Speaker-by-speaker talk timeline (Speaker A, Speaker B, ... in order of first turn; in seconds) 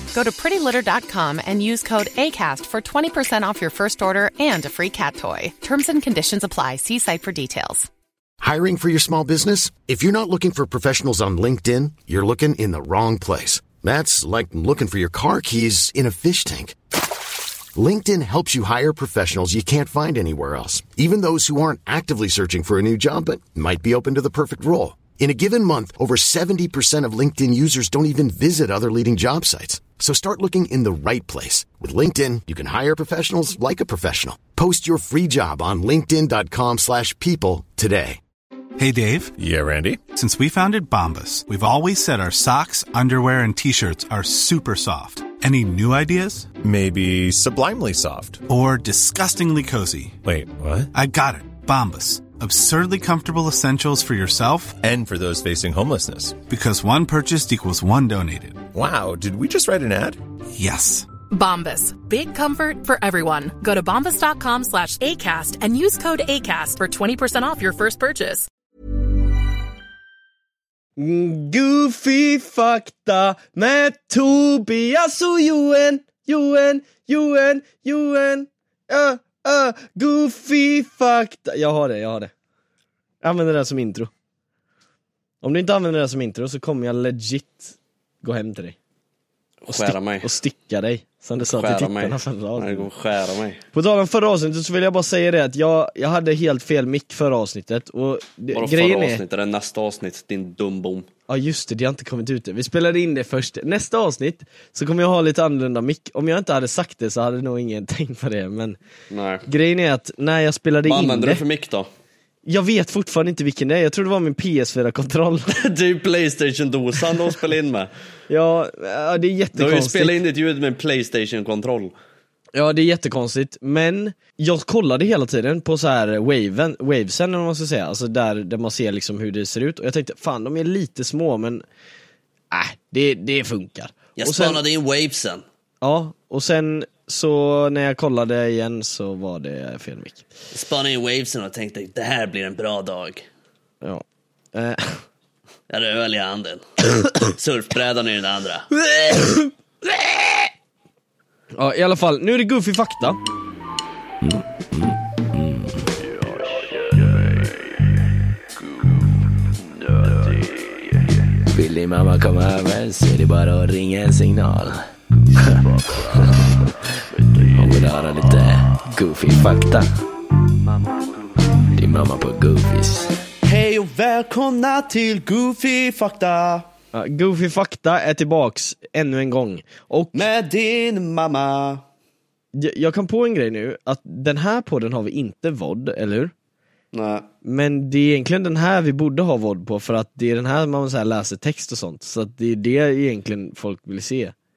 Speaker A: 0.1-7.9
Speaker B: 8.4-16.8, 17.8-38.2
Speaker C: 38.8-39.3, 40.1-46.6, 48.5-50.2, 50.9-54.8, 56.4-58.7, 60.6-61.1
Speaker D: 39.4-40.0, 46.6-48.4, 50.2-50.9, 54.8-56.4, 58.7-60.2
Speaker E: 61.3-68.5
Speaker F: 71.0-82.3, 83.2-84.1, 85.4-88.8, 89.7-92.9, 93.7-99.2, 101.3-108.8, 109.5-111.4, 112.5-115.5, 118.3-120.2, 122.5-131.6, 132.5-134.6, 135.8-140.2, 143.8-145.0, 149.0-149.4, 151.6-153.2, 176.9-180.2, 182.6-186.3, 187.4-194.3
Speaker G: 89.6-90.3, 91.5-93.6, 98.5-101.1, 109.1-109.5, 110.8-111.9, 115.5-117.9, 119.5-121.9, 134.2-135.4, 140.5-143.3, 145.7-148.7, 167.6-167.9, 170.8-171.1, 173.4-176.7, 180.1-181.8, 186.9-187.3
Speaker H: 154.2-154.8, 155.3-155.8, 161.5-164.8, 165.4-166.6, 167.5-169.9, 171.8-173.2